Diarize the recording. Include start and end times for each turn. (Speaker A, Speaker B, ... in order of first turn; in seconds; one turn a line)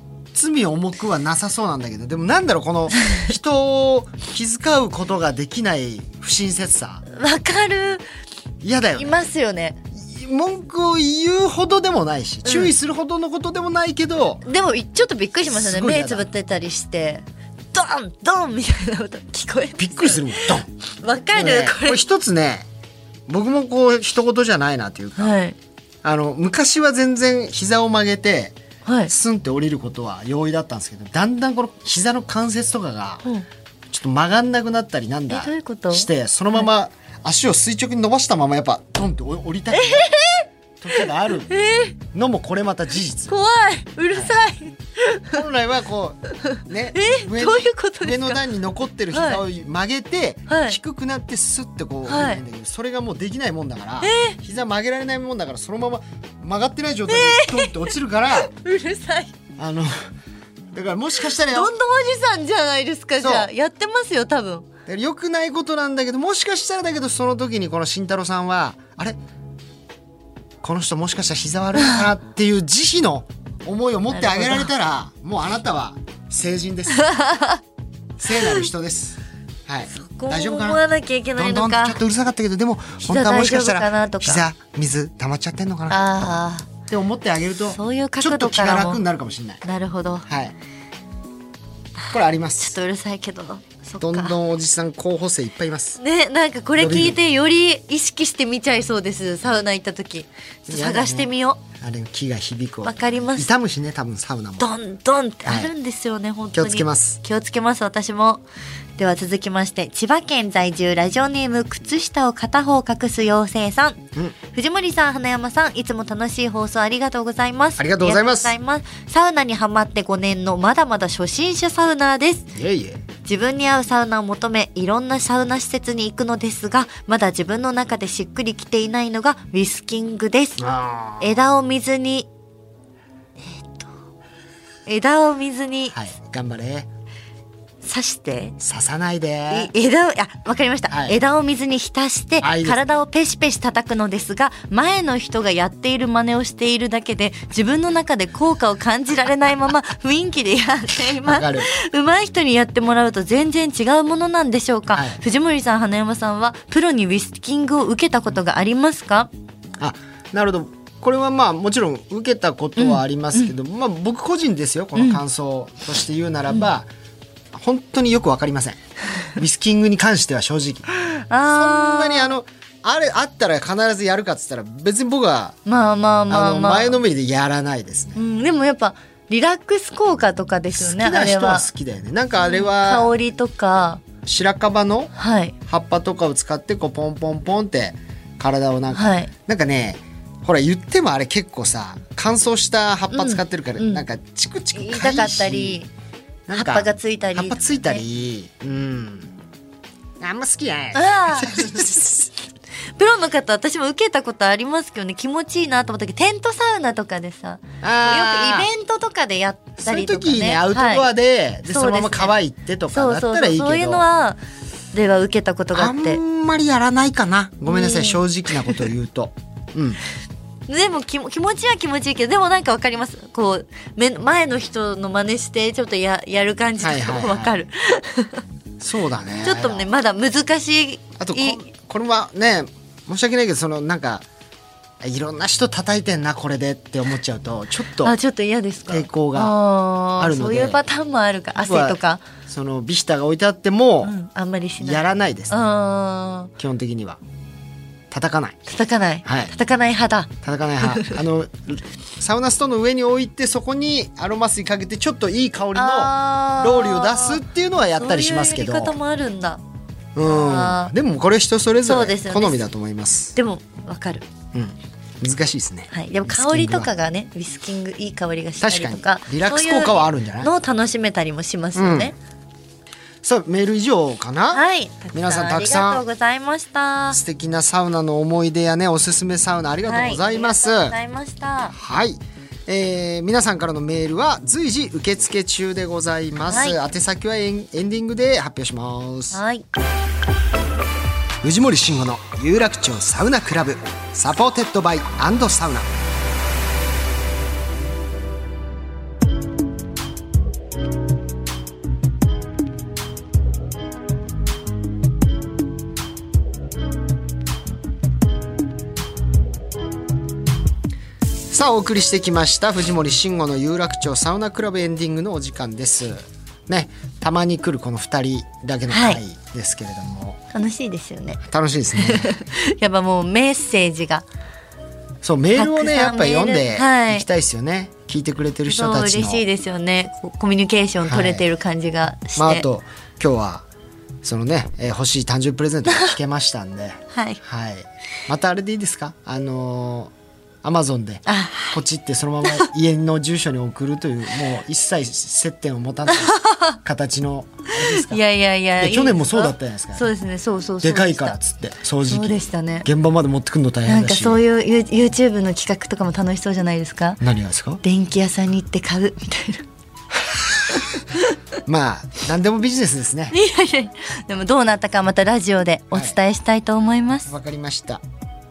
Speaker A: 0.3-7.0
Speaker B: 7.1-8.0
Speaker A: 8.6-9.2
Speaker B: 9.0-9.8
Speaker A: 9.9-14.4
Speaker B: 12.4-12.7
Speaker B: 14.4-22.0
Speaker A: 15.5-16.3
Speaker A: 19.8-20.7
Speaker A: 21.3-22.7
Speaker A: 23.3-25.4
Speaker B: 25.2-25.6
Speaker A: 26.0-28.6
Speaker B: 28.9-29.1
Speaker A: 29.1-33.2
Speaker A: 33.9-40.1
Speaker B: 35.3-36.7
Speaker B: 39.7-42.0
Speaker A: 40.8-41.5
Speaker A: 42.1-43.3
Speaker B: 43.3-45.4
Speaker A: 45.3-58.5
Speaker B: 46.5-48.4
Speaker B: 49.1-49.4
Speaker B: 50.5-50.8
Speaker B: 52.1-52.4
Speaker B: 54.0-54.4
Speaker B: 57.1-59.3
Speaker A: 59.6-59.9
Speaker A: 60.7-61.7
Speaker B: 61.5-64.7
Speaker A: 63.2-63.5
Speaker A: 64.9-69.2
Speaker A: 70.6-77.0
Speaker B: 74.1-74.7
Speaker B: 77.0-77.6
Speaker A: 78.2-80.8
Speaker B: 78.3-78.7
Speaker B: 79.9-82.0
Speaker A: 81.4-89.6
Speaker B: 83.0-84.5
Speaker B: 85.9-86.7
Speaker B: 87.7-89.0
Speaker B: 89.6-90.3
Speaker A: 90.3-90.5
Speaker B: 92.0-94.4
Speaker A: 92.1-92.8
Speaker A: 94.0-96.0
Speaker B: 96.0-101.6
Speaker A: 96.8-97.2
Speaker A: 100.7-104.7
Speaker B: 102.8-103.5
Speaker B: 104.6-108.4
Speaker A: 105.5-105.7
Speaker A: 106.5-107.2
Speaker B: 109.0-122.5
Speaker A: 117.8-118.5
Speaker A: 122.5-123.0
Speaker B: 123.2-130.6
Speaker A: 130.6-131.4
Speaker B: 131.2-132.3
Speaker B: 133.5-133.9
Speaker B: 134.9-136.0
Speaker A: 135.9-136.9
Speaker B: 137.8-138.6
Speaker A: 138.6-139.7
Speaker B: 139.5-159.3
Speaker A: 140.9-141.2
Speaker A: 142.4-142.8
Speaker A: 151.2-151.7
Speaker A: 154.9-155.2
Speaker A: 159.8-166.9
Speaker B: 162.8-163.5
Speaker B: 164.9-165.2
Speaker A: 167.5-168.8
Speaker A: 169.4-170.9
Speaker B: 171.0-172.3
Speaker A: 171.4-175.6
Speaker B: 175.7-177.0
Speaker A: 176.3-178.2
Speaker B: 178.1-181.7
Speaker A: 180.7-183.1
Speaker B: 182.4-184.0
Speaker A: 184.2-185.1
Speaker B: 185.1-185.6
Speaker A: 185.7-195.8
Speaker B: 188.9-189.3
Speaker B: 193.1-194.1
Speaker B: 194.7-195.9
Speaker A: 196.5-199.3
Speaker B: 196.5-198.0
Speaker A: 200.2-202.3
Speaker B: 200.9-201.9
Speaker B: 203.0-211.1
Speaker A: 207.8-208.7
Speaker A: 209.8-214.1
Speaker B: 211.7-212.4
Speaker B: 212.9-214.4
Speaker B: 214.9-216.2
Speaker A: 215.7-220.0
Speaker B: 217.7-218.8
Speaker B: 220.7-228.4
Speaker A: 226.8-227.5
Speaker A: 228.8-229.9
Speaker B: 229.4-231.6
Speaker A: 231.2-234.2
Speaker A: 235.0-238.1
Speaker B: 238.0-242.2
Speaker A: 238.9-239.6
Speaker A: 240.2-240.8
Speaker A: 241.6-244.1
Speaker B: 244.0-246.5
Speaker A: 244.8-245.6
Speaker A: 246.6-247.2
Speaker A: 248.1-248.6
Speaker B: 248.7-251.2
Speaker A: 249.2-249.5
Speaker A: 250.4-258.9
Speaker B: 255.8-257.4
Speaker B: 258.0-259.6
Speaker A: 260.1-263.4
Speaker B: 260.2-260.9
Speaker B: 261.8-262.6
Speaker B: 263.4-264.3
Speaker A: 264.5-266.9
Speaker B: 265.9-272.1
Speaker A: 268.6-270.5
Speaker A: 271.8-272.1
Speaker A: 273.2-276.0
Speaker B: 274.5-277.2
Speaker A: 277.1-281.0
Speaker B: 279.9-281.8
Speaker A: 281.7-289.4
Speaker B: 286.5-286.8
Speaker B: 289.3-289.6
Speaker A: 291.4-295.9
Speaker A: 311.5-320.4
Speaker B: 318.9-319.2
Speaker B: 320.5-321.4
Speaker A: 321.4-322.3
Speaker B: 322.0-324.2
Speaker A: 325.2-329.4
Speaker B: 325.6-327.3
Speaker B: 328.7-332.7
Speaker A: 331.1-331.5
Speaker A: 332.4-333.6
Speaker A: 334.2-348.2
Speaker B: 335.9-336.1
Speaker B: 337.1-337.4
Speaker B: 341.3-341.8
Speaker B: 346.2-346.8
Speaker B: 347.8-351.4
Speaker A: 348.8-350.1
Speaker A: 350.8-354.4
Speaker B: 352.1-352.9
Speaker B: 353.9-357.2
Speaker A: 357.2-357.8
Speaker B: 357.8-359.7
Speaker A: 361.6-363.4
Speaker B: 363.3-367.3
Speaker A: 365.9-366.2
Speaker A: 367.3-368.0